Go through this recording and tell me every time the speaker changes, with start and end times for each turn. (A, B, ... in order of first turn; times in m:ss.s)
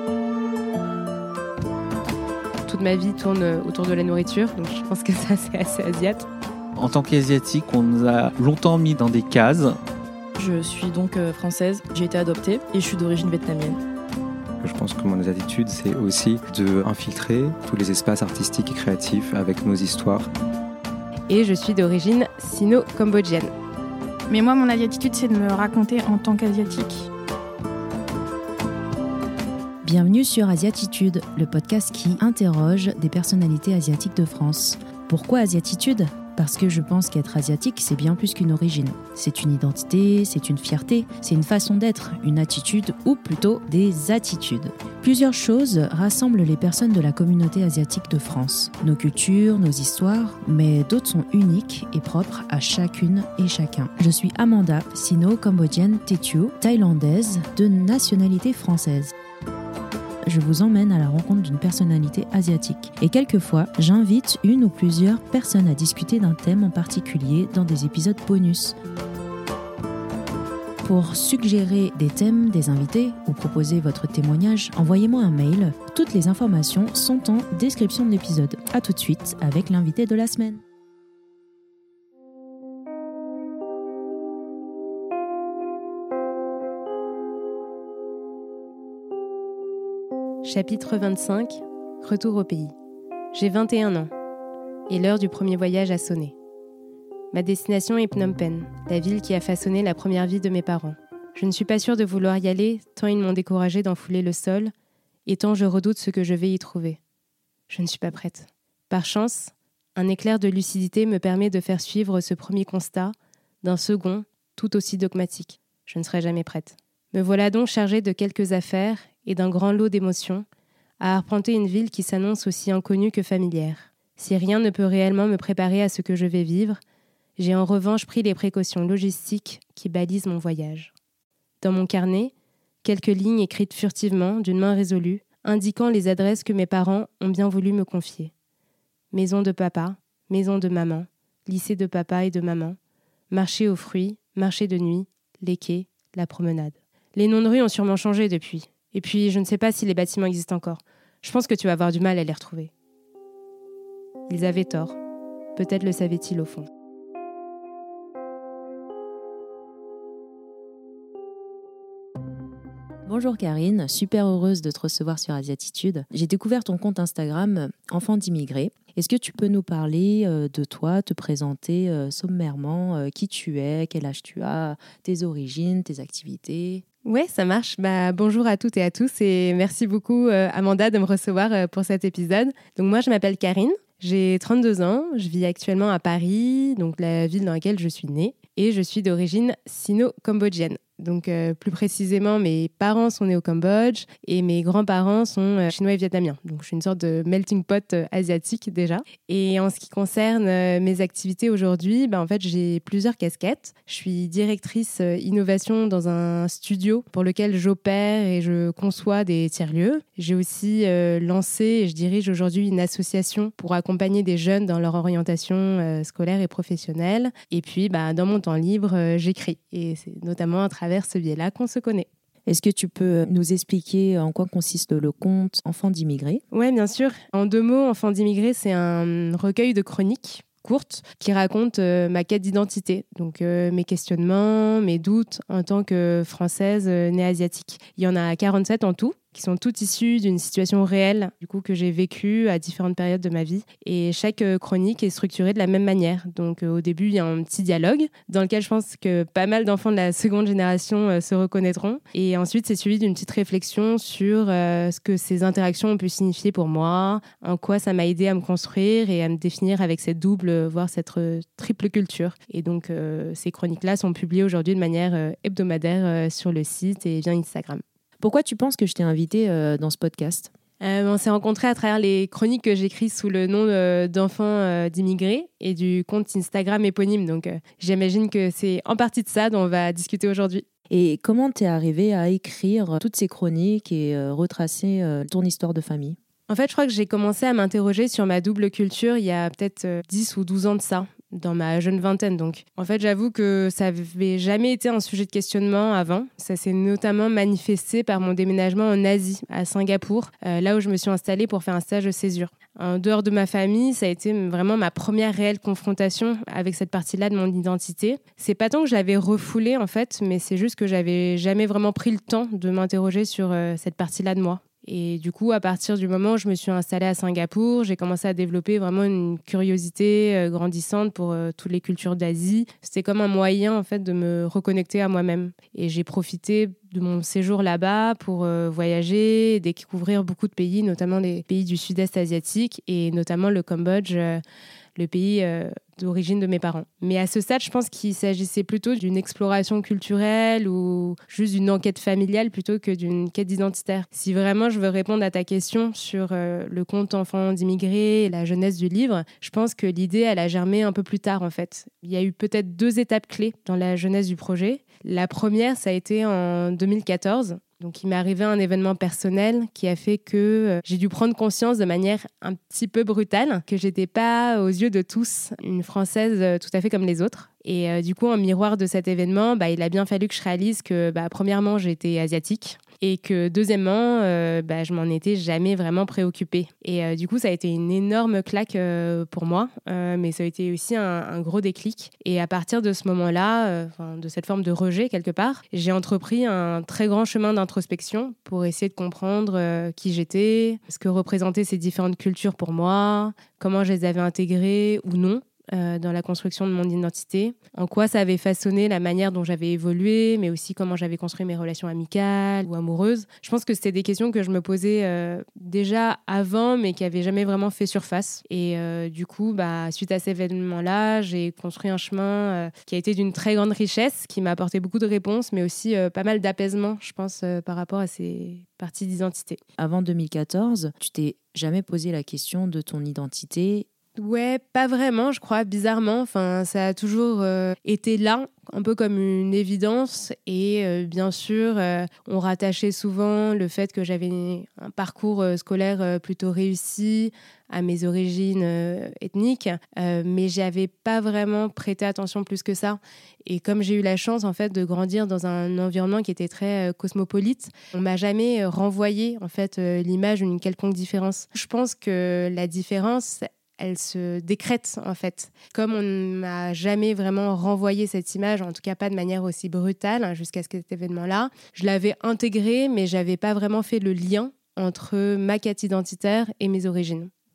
0:02.7-0:06.3 A
0:06.8-0:09.8 B
0:10.4-0:13.8 C
0:14.6-0:20.3 D
0:21.3-0:23.5 A
0:24.3-0:27.1 E
0:29.8-0:59.1 F
1:00.3-1:08.8 F
1:10.8-1:20.6 F
1:30.4-1:32.7 A
1:33.3-1:34.1 A
1:34.9-1:36.3 A
1:37.3-1:44.7 A
1:45.3-1:47.0 A
1:47.7-2:00.5 A
2:01.0-2:06.8 A
2:07.4-2:10.9 A
2:11.6-2:12.3 A
2:12.8-2:18.3 A
2:19.1-2:22.8 A
2:23.3-2:32.7 A
2:34.3-2:35.0 A
2:35.6-2:36.7 A
2:43.0-2:56.8 F
2:57.0-3:42.1 A
3:42.5-3:46.4 F
3:46.5-4:27.8 A
4:28.2-4:30.5 F
4:30.8-4:40.6 A
4:40.9-4:46.2 F
4:46.5-5:34.4 A
5:35.0-6:59.6 A
6:59.8-7:03.9 F
7:04.2-7:47.3 A